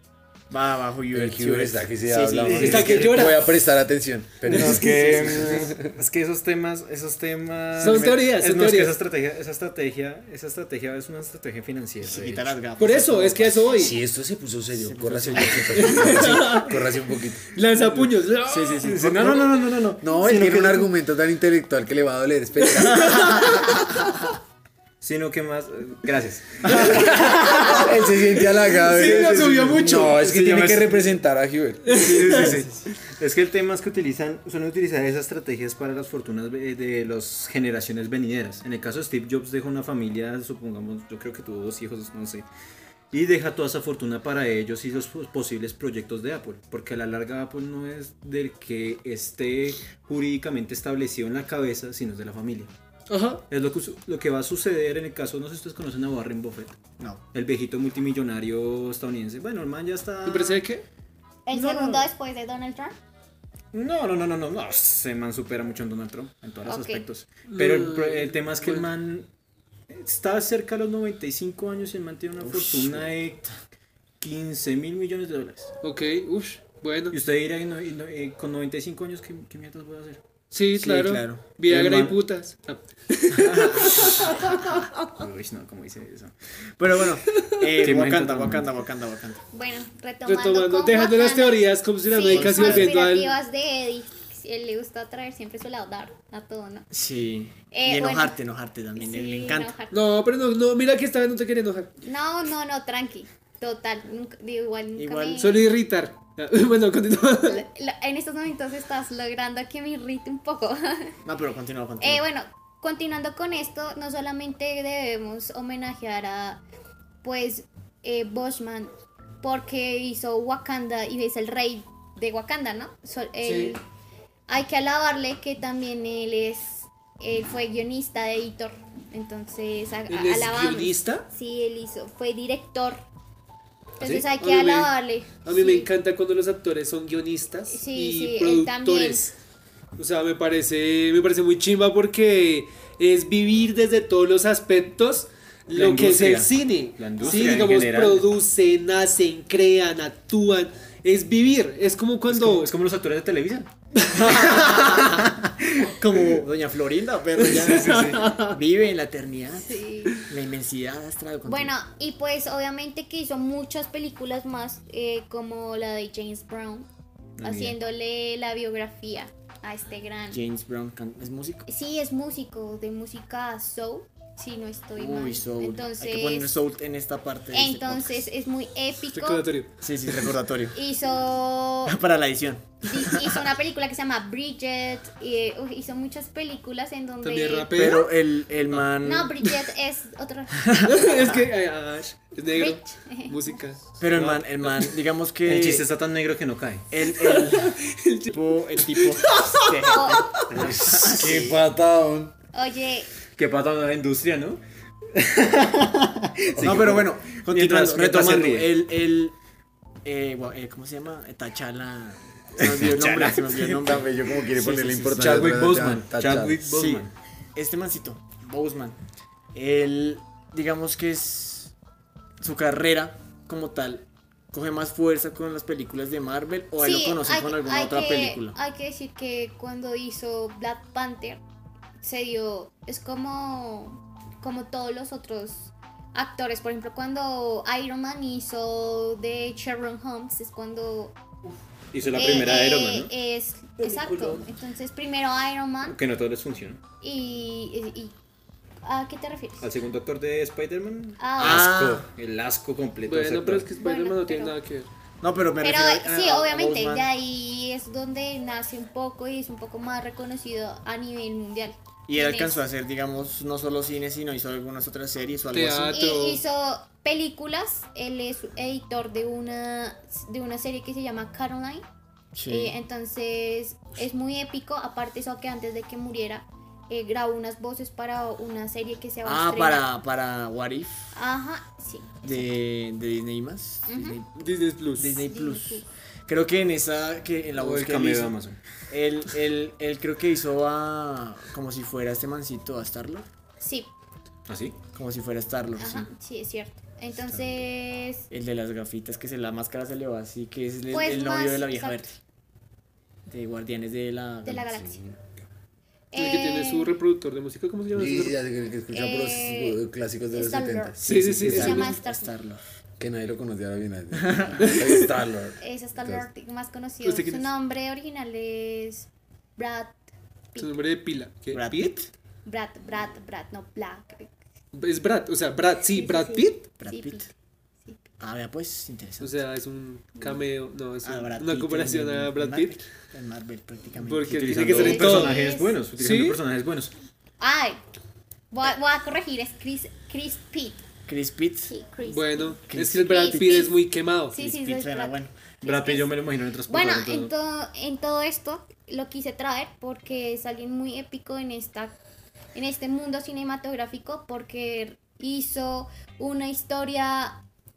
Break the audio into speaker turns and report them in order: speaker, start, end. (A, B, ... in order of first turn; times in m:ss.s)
0:00.5-0:03.3 A
0:01.1-0:05.9 B
0:02.4-0:03.1 C
0:02.6-0:03.4 D
0:04.5-0:12.6 C
0:04.8-0:05.5 A
0:07.8-0:08.2 A
0:07.8-0:09.0 D
0:12.0-0:13.9 A
0:12.8-0:14.0 D
0:13.8-0:17.4 B
0:14.7-0:16.3 A
0:15.7-0:16.8 D
0:17.5-0:18.9 D
0:18.5-0:19.0 A
0:18.8-0:20.9 C
0:18.9-0:23.3 B
0:22.6-0:24.1 D
0:25.0-0:27.5 C
0:27.7-0:32.0 B
0:28.8-0:30.4 D
0:29.0-0:31.2 C
0:31.9-0:32.4 D
0:32.0-0:32.8 A
0:32.0-0:42.5 C
0:43.1-0:52.7 C
0:53.1-0:53.4 D
0:53.5-0:56.8 C
0:57.3-1:00.6 C
1:00.2-1:00.8 D
1:01.5-1:03.0 E
1:01.5-1:02.1 C
1:03.7-1:09.3 C
1:06.7-1:07.0 E
1:07.5-1:08.9 D
1:09.9-1:13.5 C
1:12.4-1:13.2 A
1:14.2-1:15.7 C
1:15.8-1:17.2 D
1:17.1-1:20.2 C
1:20.5-1:25.0 D
1:20.8-1:21.4 A
1:21.6-1:22.2 C
1:23.5-1:24.0 A
1:23.8-1:24.5 C
1:25.0-1:26.3 C
1:26.8-1:29.4 A
1:27.3-1:27.6 D
1:27.8-1:28.7 C
1:29.5-1:36.9 E
1:30.3-1:33.3 D
1:32.3-1:32.9 A
1:36.9-1:39.7 A
1:37.7-1:38.4 E
1:39.0-1:40.0 E
1:39.9-1:41.9 D
1:42.0-1:45.6 E
1:45.0-1:45.6 A
1:45.4-1:47.6 D
1:47.5-1:51.2 E
1:51.3-1:52.2 A
1:52.0-1:56.6 E
1:57.2-2:03.8 E
2:03.4-2:03.8 D
2:04.5-2:13.0 E
2:10.1-2:11.3 D
2:14.0-2:15.9 E
2:14.0-2:14.9 D
2:15.4-2:19.3 D
2:17.7-2:19.3 E
2:20.0-2:32.7 D
2:25.7-2:28.3 C
2:27.2-2:27.7 A
2:32.3-2:35.3 C
2:34.0-2:35.2 A
2:36.0-2:41.7 A
2:37.6-2:38.6 D
2:37.6-2:38.3 C
2:39.5-2:40.2 E
2:41.4-2:46.9 E
2:47.4-2:47.8 C
2:47.4-2:50.4 E
2:50.3-2:51.7 A
2:51.7-2:56.6 E
2:55.0-2:58.3 A
2:57.5-2:59.5 E
2:59.1-2:59.7 D
2:59.8-3:00.8 A
3:00.7-3:02.0 E
3:01.9-3:03.4 A
3:02.9-3:08.0 E
3:07.2-3:08.1 D
3:07.8-3:09.4 A
3:09.0-3:10.6 E
3:10.6-3:10.9 A
3:10.8-3:14.4 D
3:12.6-3:13.4 E
3:14.0-3:15.8 A
3:15.4-3:16.9 C
3:16.9-3:17.8 A
3:17.2-3:18.4 D
3:18.3-3:21.6 A
3:18.9-3:20.2 D
3:19.9-3:20.4 E
3:20.5-3:22.3 B
3:22.5-3:23.1 E
3:23.4-3:24.6 C
3:25.2-3:28.7 C
3:26.6-3:27.1 B
3:26.6-3:29.4 A
3:30.0-3:35.3 A
3:32.6-3:33.5 C
3:33.6-3:36.6 B
3:35.1-3:37.1 C
3:36.6-3:39.0 A
3:39.5-3:41.8 A
3:42.4-3:48.6 A
3:46.8-3:51.4 E
3:52.0-4:01.2 E
4:01.9-4:03.1 C
4:02.1-4:06.0 E
4:03.8-4:04.4 B
4:05.8-4:06.8 C
4:07.0-4:08.2 E
4:08.8-4:09.7 E
4:09.6-4:13.7 C
4:11.2-4:11.8 E
4:11.4-4:12.1 A
4:13.1-4:14.9 D
4:13.7-4:14.6 E
4:15.2-4:17.1 A
4:15.6-4:22.6 E
4:22.1-4:26.0 A
4:25.5-4:26.4 D
4:25.9-4:31.9 E
4:32.4-4:32.8 A
4:32.5-4:39.9 E
4:39.2-4:41.1 A
4:41.1-4:42.4 E
4:42.2-4:53.3 A
4:43.9-4:44.2 E
4:44.4-4:45.2 D
4:45.2-4:45.9 E
4:47.6-4:48.6 C
4:53.6-4:53.9 E
4:54.5-4:54.8 C
4:54.9-4:56.1 A
4:55.8-4:58.3 E
4:58.3-5:02.2 A
5:00.9-5:02.0 E
5:03.3-5:04.9 A
5:04.4-5:05.0 E
5:04.9-5:05.4 B
5:06.1-5:06.9 E
5:06.2-5:08.4 D
5:07.9-5:11.9 B
5:08.9-5:09.8 E
5:10.3-5:12.4 E
5:11.0-5:12.6 A
5:11.0-5:11.8 D
5:13.0-5:16.3 B
5:14.6-5:15.1 D
5:15.6-5:20.8 E
5:17.0-5:17.5 D
5:20.6-5:21.9 D
5:21.5-5:22.1 A
5:22.4-5:24.3 E
5:24.7-5:26.7 D
5:25.9-5:27.3 E
5:26.8-5:27.3 A
5:28.2-5:29.4 A
5:29.2-5:32.8 D
5:31.0-5:35.2 A
5:34.0-5:35.4 D
5:34.3-5:36.9 C
5:34.6-5:35.8 E
5:36.0-5:36.4 D
5:37.4-5:37.8 E
5:38.5-5:40.8 E
5:41.1-5:41.7 A
5:41.7-5:43.8 E
5:42.1-5:44.4 D
5:42.7-5:43.7 A
5:44.3-5:46.1 E
5:44.4-5:45.4 A
5:45.6-5:47.3 C
5:46.7-5:52.0 E
5:52.6-5:57.4 E